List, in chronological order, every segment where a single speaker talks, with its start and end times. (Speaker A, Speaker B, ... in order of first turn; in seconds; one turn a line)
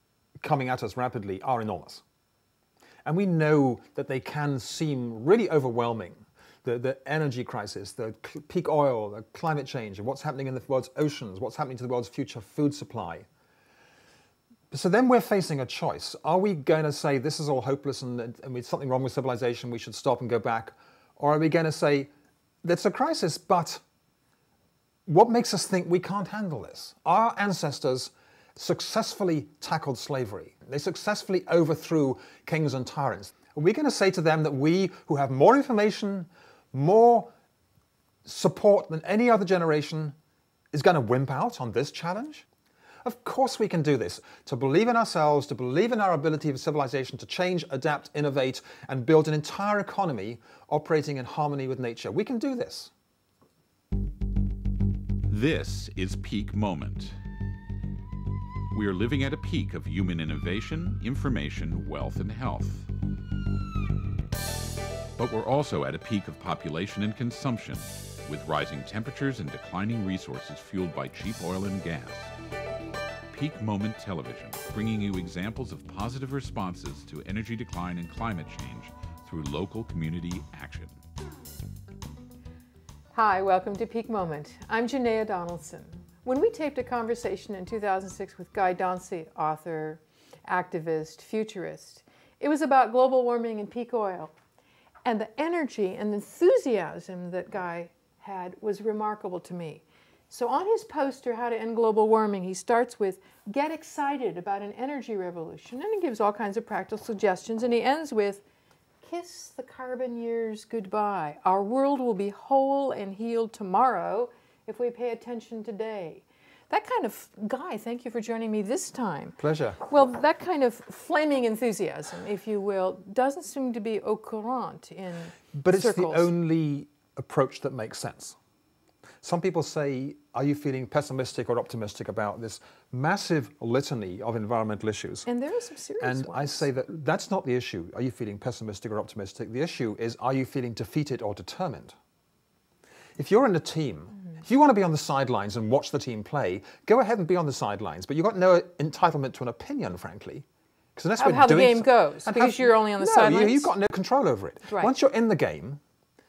Speaker A: 0.4-2.0
Speaker A: 3.1-13.3
Speaker A: 14.7-22.1
Speaker A: 22.6-23.8
Speaker A: 25.1-37.3
Speaker A: 38.3-40.2
Speaker A: 40.7-42.5
Speaker A: 43.0-52.9
Speaker B: 55.2-57.2
Speaker B: 58.7-62.9
Speaker B: 65.2-72.3
Speaker B: 73.3-81.0
Speaker C: 83.1-94.3
Speaker C: 95.0-108.4
Speaker C: 109.0-126.3
Speaker A: 119.4-119.8
Speaker A: 125.5-128.4
Speaker A: 129.2-135.3
Speaker C: 135.3-136.7
Speaker A: 136.0-141.9
Speaker A: 143.2-150.4
Speaker A: 151.0-155.8
Speaker C: 151.2-153.7